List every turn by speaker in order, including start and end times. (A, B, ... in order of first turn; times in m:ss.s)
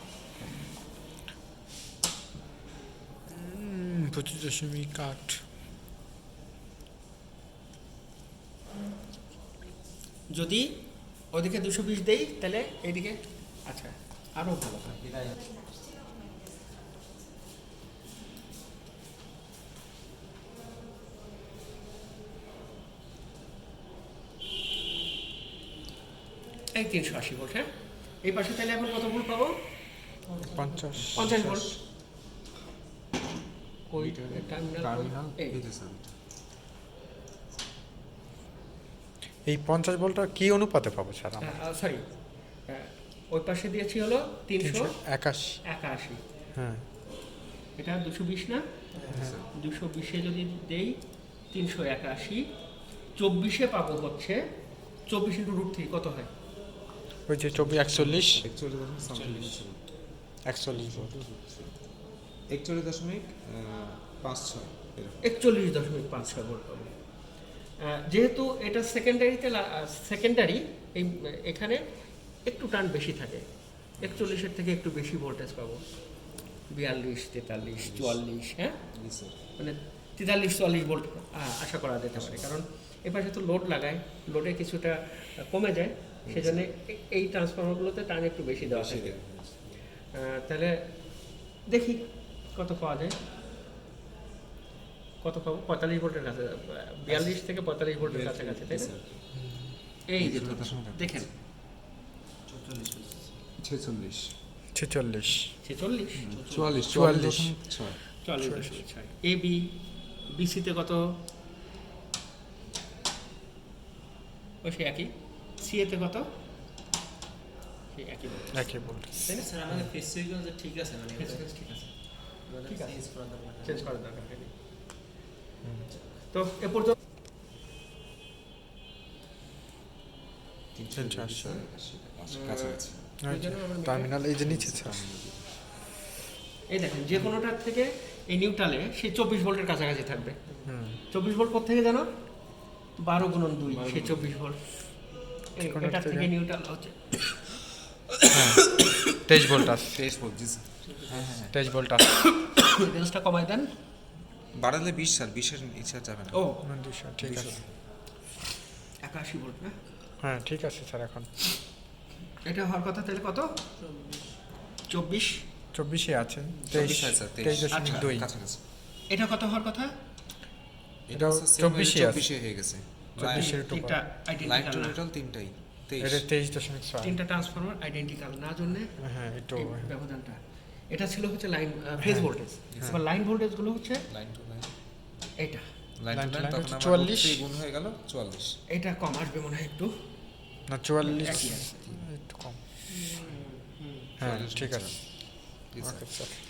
0:03.3-0:05.4 A
0:10.3-0:10.7 B
0:11.3-0:15.0 B
0:15.0-0:15.4 C
0:26.7-0:29.6 B
0:30.3-0:30.9 D
0:30.5-0:31.3 A
0:31.0-0:31.8 C
0:31.2-0:31.8 B
0:33.9-0:35.6 B
0:34.0-0:36.1 C
0:39.5-0:41.6 A
0:41.4-0:42.0 B
0:42.6-0:45.0 B
0:44.6-0:45.6 A
0:45.6-0:46.2 B
0:46.6-0:46.9 A
0:47.8-0:48.6 B
0:49.0-0:49.3 D
0:49.1-0:49.5 C
0:49.5-0:51.0 B
0:51.5-0:52.5 B
0:53.2-0:54.4 B
0:55.1-0:56.3 B
0:57.3-0:58.5 A
0:57.5-0:59.9 C
0:59.0-0:59.6 D
1:00.4-1:01.1 A
1:00.7-1:01.8 C
1:02.5-1:05.4 C
1:05.2-1:06.9 B
1:07.8-1:11.8 B
1:12.4-1:13.4 B
1:14.0-1:14.4 C
1:14.0-1:15.8 B
1:16.7-1:18.8 B
1:17.8-1:18.2 C
1:18.9-1:19.4 C
1:19.6-1:29.2 B
1:22.1-1:22.5 C
1:26.3-1:26.7 C
1:28.5-1:29.8 C
1:30.1-1:30.8 B
1:31.6-1:33.2 B
1:35.2-1:38.9 B
1:37.1-1:37.4 C
1:38.0-1:39.2 C
1:39.4-1:39.8 A
1:40.1-1:41.3 B
1:40.2-1:41.3 C
1:42.5-1:43.3 D
1:43.6-1:44.3 C
1:44.7-1:45.6 A
1:45.6-1:46.2 B
1:46.2-1:48.0 C
1:46.3-1:46.8 D
1:46.8-1:47.6 A
1:48.2-1:49.8 B
1:48.4-1:48.8 A
1:50.3-1:51.0 B
1:54.6-1:56.3 B
1:57.9-1:59.5 B
1:58.5-1:59.9 A
1:59.2-2:01.4 D
2:01.2-2:02.0 B
2:02.5-2:03.9 D
2:02.7-2:03.0 B
2:03.6-2:04.5 B
2:05.6-2:05.9 A
2:06.3-2:07.0 B
2:10.7-2:13.0 C
2:11.0-2:11.6 A
2:12.3-2:14.1 B
2:13.2-2:15.0 A
2:14.4-2:15.6 C
2:16.7-2:20.4 B
2:20.7-2:21.0 A
2:21.1-2:22.1 B
2:23.0-2:24.6 B
2:23.7-2:24.3 C
2:25.6-2:27.5 B
2:25.6-2:26.3 A
2:28.2-2:29.0 B
2:28.3-2:30.0 A
2:29.8-2:31.5 C
2:30.9-2:31.4 B
2:31.5-2:32.0 A
2:32.3-2:33.7 B
2:34.5-2:36.5 C
2:36.3-2:36.6 B
2:36.6-2:37.6 A
2:37.2-2:37.7 C
2:39.0-2:39.8 B
2:40.2-2:41.3 A
2:42.4-2:43.5 B
2:43.8-2:44.4 D
2:44.9-2:45.4 B
2:45.7-2:48.3 A
2:46.7-2:48.6 C
2:47.7-2:48.1 B
2:49.1-2:49.9 B
2:51.1-2:53.6 C
2:51.1-2:52.3 A
2:53.2-2:54.0 A
2:53.2-2:55.0 B
2:54.4-2:56.3 C
2:56.0-2:57.2 A
2:57.0-2:59.0 B
2:59.0-2:59.9 A
2:59.6-3:04.0 B
3:02.0-3:03.0 A
3:02.7-3:03.0 C
3:04.1-3:04.7 C
3:05.4-3:05.6 B
3:06.0-3:08.6 C
3:06.1-3:07.4 A
3:08.7-3:09.9 B
3:10.7-3:12.6 A
3:11.0-3:11.7 B
3:11.6-3:12.0 C
3:12.9-3:14.1 D
3:14.2-3:15.3 A
3:14.2-3:16.1 C
3:15.8-3:16.4 A